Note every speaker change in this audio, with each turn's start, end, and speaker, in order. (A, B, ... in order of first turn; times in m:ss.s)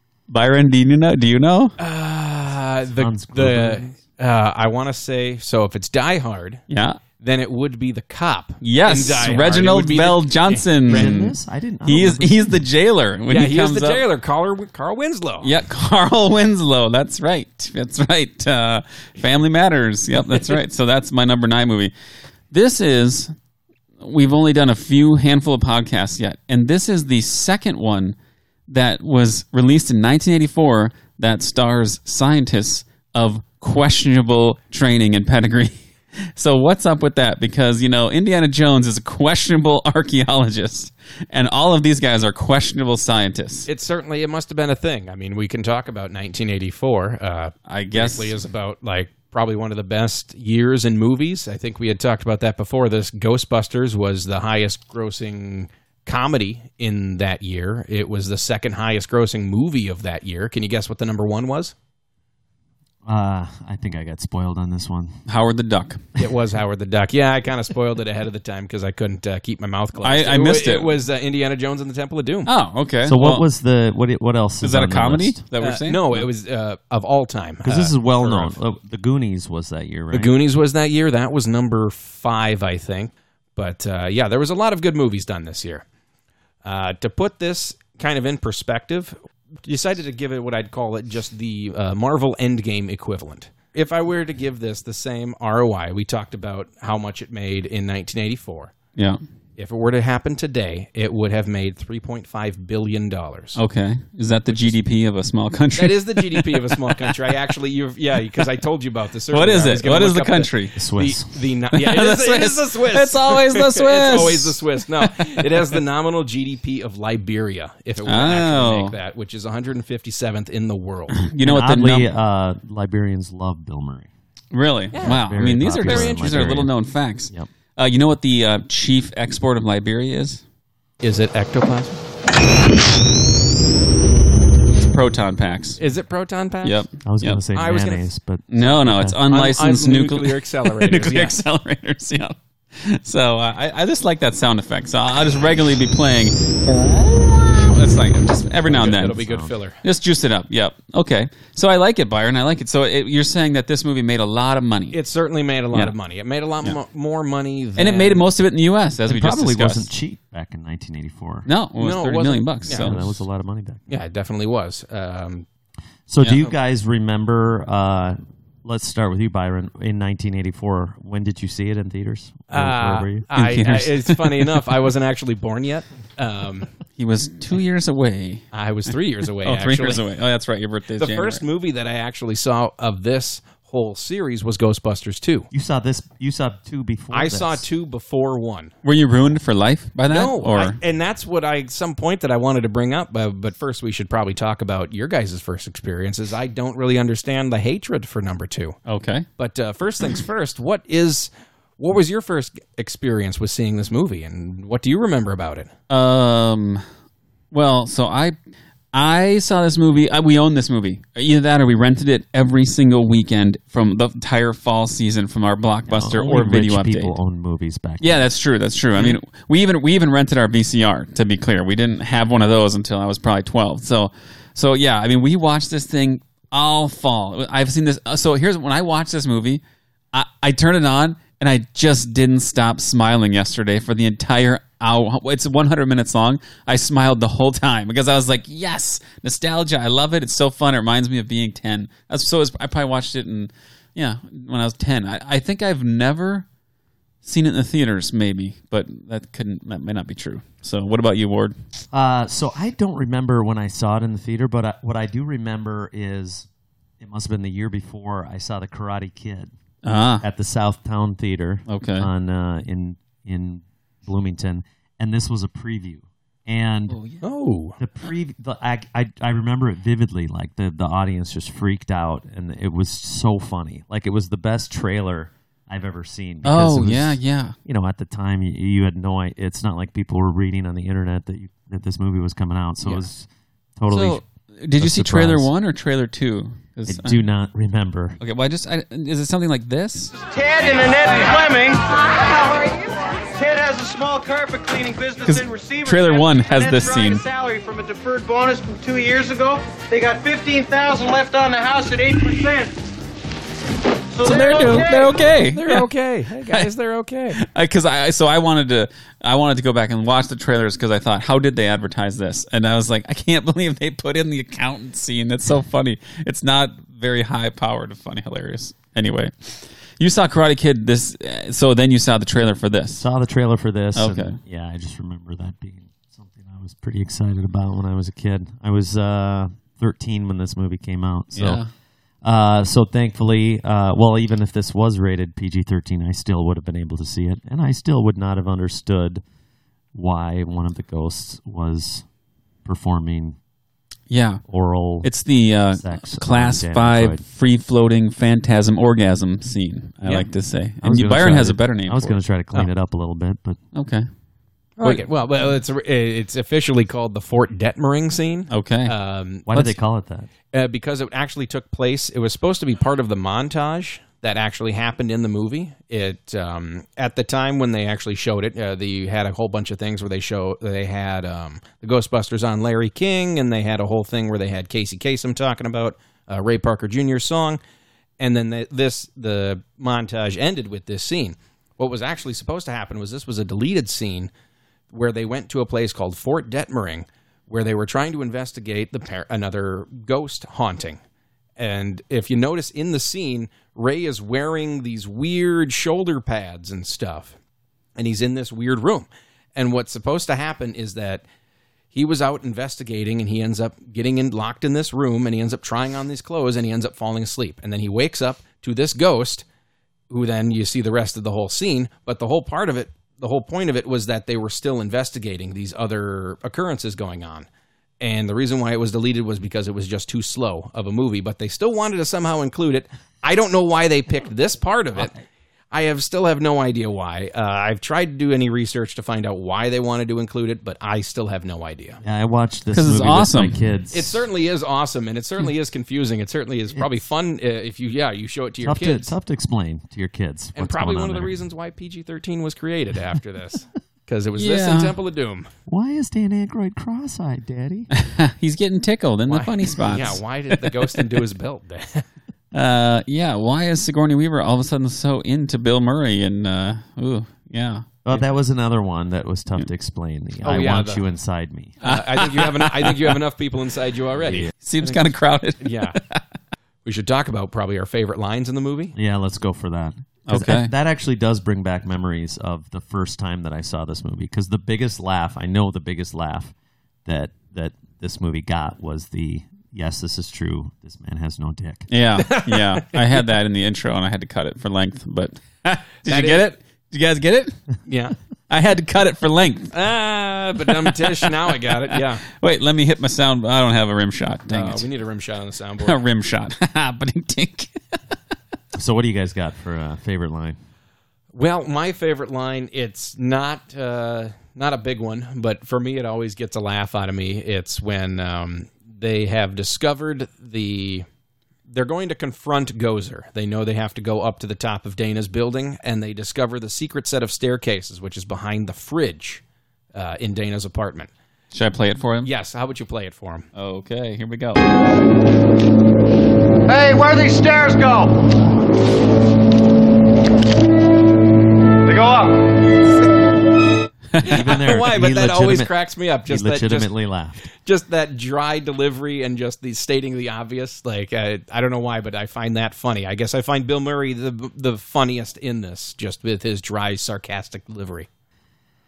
0:00.3-0:01.8 A
0:01.8-0:06.6 B
0:03.0-0:03.9 C
0:06.7-0:07.0 A
0:07.2-0:11.1 B
0:08.6-0:14.0 A
0:10.9-0:12.6 C
0:13.3-0:15.5 B
0:15.4-0:21.9 A
0:22.5-0:23.3 A
0:24.0-0:28.2 A
0:28.7-0:43.7 A
0:43.7-1:01.7 B
0:47.7-0:48.3 A
1:03.1-1:05.2 C
1:05.3-1:06.0 A
1:06.2-1:12.5 B
1:10.0-1:11.0 A
1:12.5-1:13.4 A
1:13.0-1:15.4 C
1:14.6-1:16.3 A
1:15.6-1:18.6 B
1:17.6-1:20.3 C
1:20.1-1:25.8 B
1:26.6-1:38.7 B
1:39.6-1:43.6 B
1:43.6-1:47.1 A
1:44.5-1:44.8 B
1:45.8-2:01.3 B
1:49.3-1:50.8 A
1:50.8-1:51.3 C
1:51.7-1:55.7 A
1:58.0-1:59.0 A
2:01.1-2:02.1 A
2:01.4-2:04.1 C
2:04.5-2:10.4 A
2:04.9-2:05.2 B
2:05.0-2:06.8 C
2:05.8-2:06.4 B
2:11.0-2:12.0 B
2:14.8-2:15.8 A
2:15.8-2:16.8 B
2:16.6-2:17.4 A
2:17.0-2:19.2 C
2:17.5-2:18.1 B
2:18.5-2:29.2 A
2:19.2-2:21.4 B
2:28.7-2:29.8 B
2:28.7-2:29.5 C
2:29.8-2:35.0 A
2:34.9-2:38.2 B
2:37.8-2:39.9 A
2:39.0-2:41.5 C
2:41.5-2:43.0 A
2:41.8-2:43.1 B
2:42.7-2:43.8 C
2:43.9-2:45.5 B
2:46.1-2:53.3 C
2:46.2-2:46.5 A
2:52.5-2:56.7 B
2:53.3-2:54.6 A
2:57.0-2:58.5 A
2:58.5-3:00.0 B
2:59.4-3:01.4 A
3:01.0-3:05.5 B
3:05.5-3:07.7 C
3:07.1-3:08.7 B
3:08.8-3:10.8 A
3:10.1-3:18.8 B
3:18.9-3:19.3 A
3:19.4-3:25.7 B
3:25.9-3:26.8 A
3:27.5-3:28.4 A
3:28.9-3:37.2 A
3:35.9-3:38.2 C
3:38.0-3:49.6 A
3:50.1-4:06.5 A
4:07.2-4:11.6 A
4:11.9-4:16.5 C
4:17.0-4:19.5 C
4:19.8-4:20.2 A
4:20.2-4:27.0 C
4:21.7-4:22.1 A
4:26.9-4:27.2 A
4:27.2-4:27.8 B
4:27.8-4:44.2 C
4:36.4-4:37.6 A
4:43.9-4:47.2 A
4:44.8-4:45.5 C
4:46.9-4:48.2 C
4:48.2-4:50.2 A
4:50.3-4:52.7 D
4:53.3-5:02.7 D
4:55.2-4:57.2 A
5:04.2-5:05.2 D
5:04.2-5:05.9 A
5:05.5-5:07.4 B
5:07.4-5:23.1 A
5:23.0-5:31.6 C
5:24.0-5:24.4 A
5:31.3-5:31.7 A
5:32.2-5:39.2 C
5:39.9-5:42.0 C
5:42.6-5:43.4 C
5:44.1-5:44.4 A
5:44.5-5:45.1 C
5:45.0-5:52.2 A
5:45.7-5:47.2 C
5:50.8-5:53.6 C
5:53.7-5:54.1 A
5:54.8-5:59.5 B
5:58.5-5:58.9 A
5:59.5-6:00.3 C
6:00.5-6:17.6 B
6:18.2-6:24.3 B
6:24.9-6:31.0 B
6:31.6-6:37.4 B
6:38.0-6:41.2 B
6:41.9-6:49.4 B
6:50.1-6:57.5 B
6:58.0-7:05.1 B
7:05.7-7:12.0 B
7:12.0-7:14.2 C
7:12.7-7:13.6 A
7:13.9-7:19.2 B
7:18.6-7:21.4 C
7:20.6-7:25.5 B
7:24.4-7:24.9 A
7:25.7-7:27.9 C
7:27.9-7:31.0 A
7:29.3-7:32.0 B
7:32.5-7:38.0 A
7:38.0-7:41.8 C
7:40.4-7:41.0 B
7:41.8-7:45.0 B
7:41.8-7:43.1 A
7:44.3-7:44.5 C
7:44.6-7:46.2 A
7:45.6-7:46.0 B
7:46.8-7:49.0 B
7:48.9-7:56.5 C
7:50.3-7:50.7 A
7:57.1-8:01.9 C
8:01.9-8:07.6 A
8:02.2-8:02.6 B
8:06.1-8:06.5 B
8:07.9-8:08.2 B
8:08.5-8:09.7 A
8:09.7-8:12.2 B
8:10.6-8:14.9 A
8:14.5-8:16.0 B
8:15.8-8:17.7 A
8:18.8-8:20.6 C
8:21.3-8:31.1 B
8:31.7-8:39.4 B
8:39.9-8:41.1 B
8:41.5-8:42.3 A
8:42.2-8:43.5 B
8:43.6-8:44.6 A
8:46.7-8:48.2 D
8:51.9-8:52.5 D
8:54.2-8:55.7 C
8:54.2-8:56.9 B
8:56.3-8:57.5 C
8:57.6-9:08.1 B